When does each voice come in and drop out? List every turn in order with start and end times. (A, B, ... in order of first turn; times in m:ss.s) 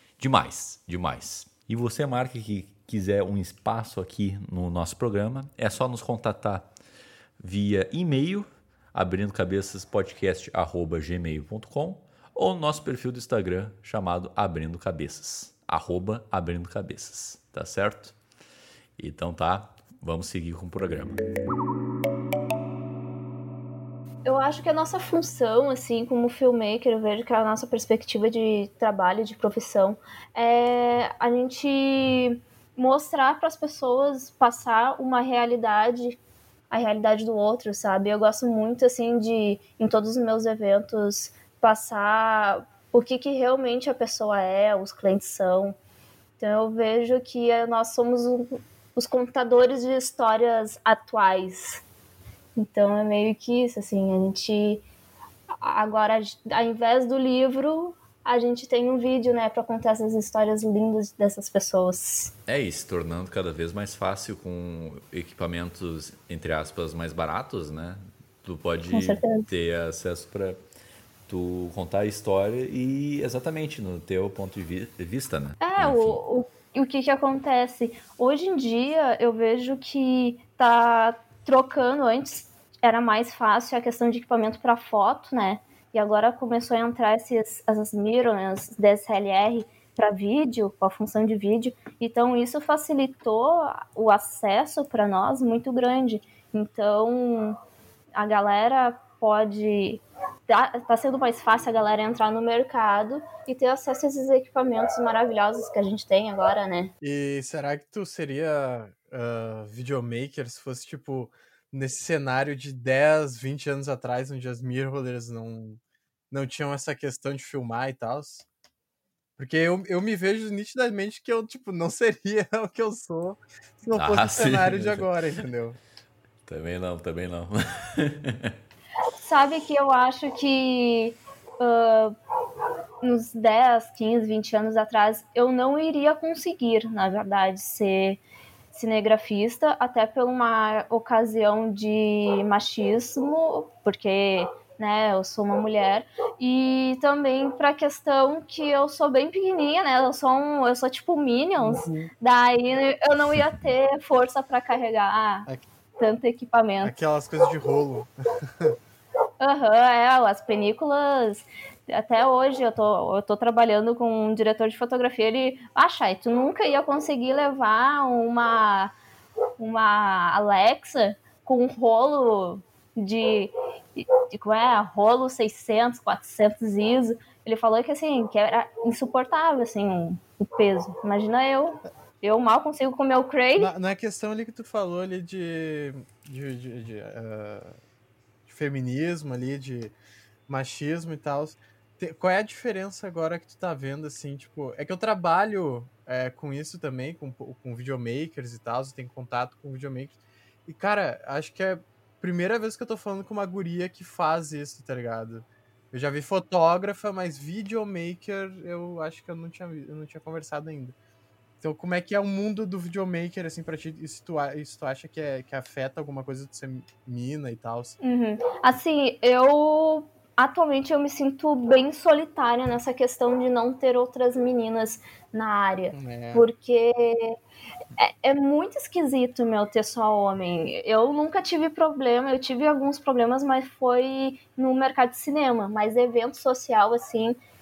0:00.2-0:06.6 A
0:07.4-0:18.1 A
0:19.0-0:21.2 A
0:24.2-0:36.2 B
0:36.7-0:45.8 B
0:46.4-0:51.8 B
0:52.6-0:54.8 B
0:55.6-1:02.3 B
1:02.5-1:10.6 A
1:08.9-1:09.5 B
1:11.3-1:16.2 A
1:15.6-1:37.6 B
1:38.1-1:46.9 B
1:47.0-1:55.8 C
1:56.3-1:58.4 C
1:59.4-2:05.8 C
2:03.9-2:05.1 A
2:06.5-2:08.5 A
2:09.2-2:12.1 B
2:13.0-2:18.2 B
2:18.7-2:36.9 B
2:31.6-2:32.1 C
2:36.8-2:38.8 C
2:39.4-2:48.9 B
2:49.6-3:03.7 B
3:03.6-3:07.8 C
3:08.4-3:09.9 C
3:10.5-3:31.0 C
3:31.6-3:38.0 C
3:38.0-3:47.4 B
3:45.9-3:46.5 C
3:48.0-3:57.4 B